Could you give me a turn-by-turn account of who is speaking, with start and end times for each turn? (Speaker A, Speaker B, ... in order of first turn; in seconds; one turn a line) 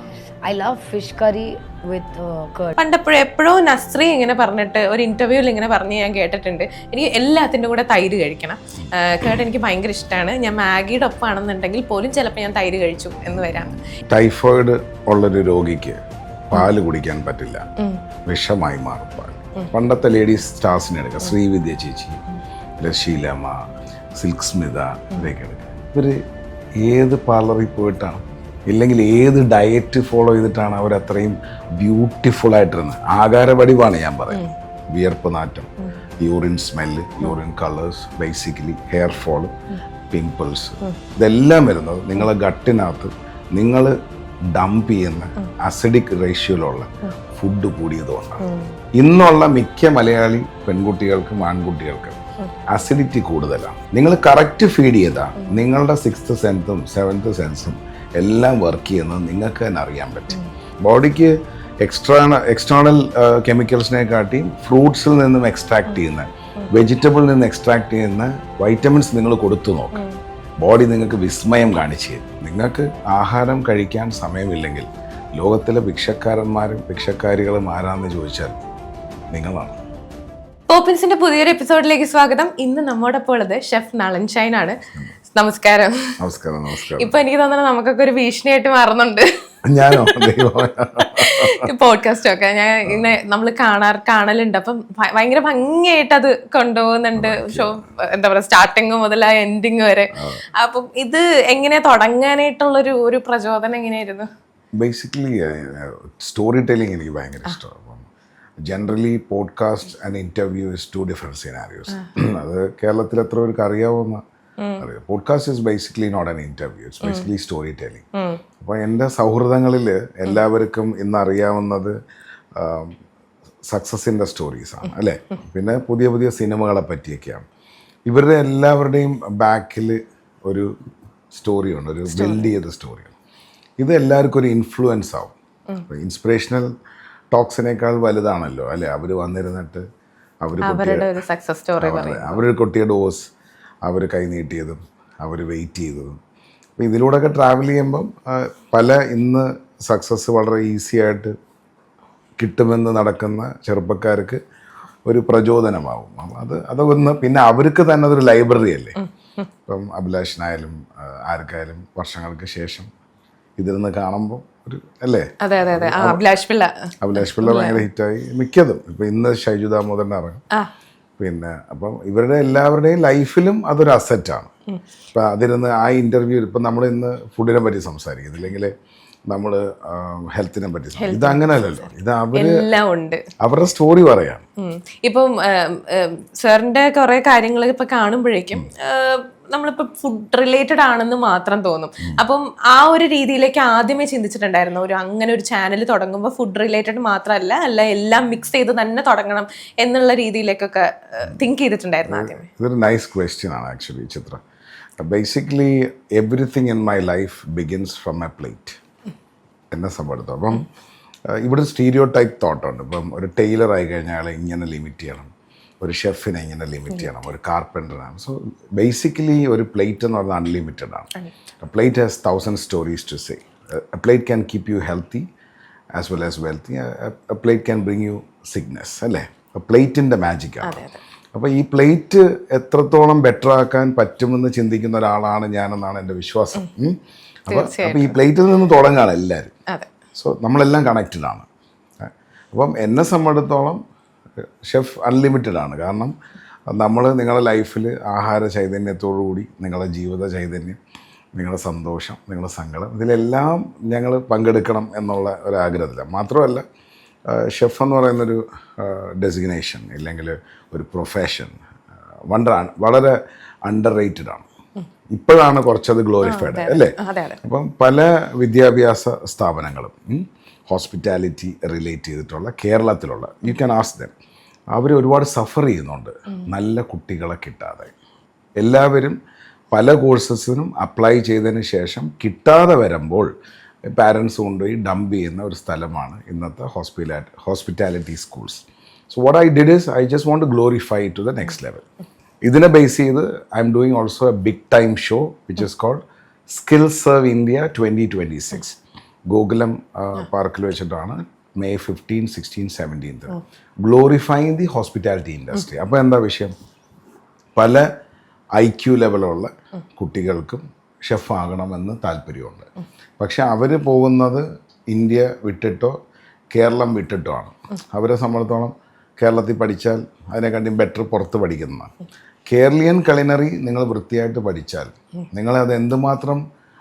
Speaker A: 0.4-2.8
Speaker B: 2.8-13.8
Speaker C: 14.1-16.0
Speaker C: 16.5-17.6
Speaker C: 18.2-22.2
Speaker C: 22.8-26.2
Speaker C: 26.8-39.5
Speaker C: 40.1-44.0
Speaker C: 44.5-48.4
Speaker B: 48.4-48.7
Speaker C: 49.0-70.0
Speaker C: 70.6-78.6
Speaker C: 79.3-79.8
Speaker B: 80.7-84.8
Speaker B: 85.3-86.1
Speaker C: 86.2-87.2
Speaker B: 87.0-89.3
Speaker C: 89.7-91.7
Speaker B: 89.8-90.4
Speaker B: 91.0-104.3
Speaker C: 97.2-97.8
Speaker C: 100.1-100.4
Speaker C: 104.8-108.1
Speaker C: 108.7-114.2
Speaker B: 114.6-114.8
Speaker C: 114.8-118.0
Speaker B: 117.0-117.3
Speaker B: 118.1-118.4
Speaker C: 118.6-121.9
Speaker C: 122.5-123.0
Speaker C: 123.7-127.4
Speaker C: 128.1-130.7
Speaker C: 131.3-133.1
Speaker B: 132.1-132.5
Speaker C: 133.8-135.3
Speaker C: 135.9-136.7
Speaker C: 137.3-139.8
Speaker C: 140.4-141.2
Speaker B: 140.6-142.4
Speaker C: 141.8-143.3
Speaker C: 143.8-146.2
Speaker C: 146.8-151.3
Speaker C: 152.4-154.4
Speaker C: 155.1-158.9
Speaker B: 158.9-159.5
Speaker C: 159.7-162.9
Speaker C: 163.6-166.2
Speaker B: 165.4-167.8
Speaker C: 167.0-170.4
Speaker C: 171.2-174.5
Speaker C: 175.1-178.7
Speaker C: 179.3-182.6
Speaker B: 181.0-181.7
Speaker B: 182.3-183.2
Speaker C: 183.4-184.4
Speaker B: 184.6-202.5
Speaker C: 202.1-204.4
Speaker C: 205.0-208.8
Speaker C: 209.7-210.7
Speaker C: 211.3-215.3
Speaker C: 215.8-221.1
Speaker C: 221.6-225.3
Speaker C: 225.9-239.5
Speaker B: 230.6-231.0
Speaker B: 237.5-238.2
Speaker C: 240.1-241.4
Speaker C: 242.0-243.8
Speaker C: 244.4-246.1
Speaker C: 246.7-250.8
Speaker C: 251.4-256.6
Speaker C: 257.3-261.6
Speaker C: 262.3-264.5
Speaker C: 265.1-274.1
Speaker B: 266.2-267.4
Speaker C: 274.7-277.9
Speaker C: 278.6-279.2
Speaker C: 279.7-283.3
Speaker C: 283.9-291.8
Speaker C: 292.4-306.5
Speaker C: 307.6-307.9
Speaker C: 308.6-312.7
Speaker C: 313.2-316.0
Speaker C: 316.5-321.9
Speaker C: 322.5-326.4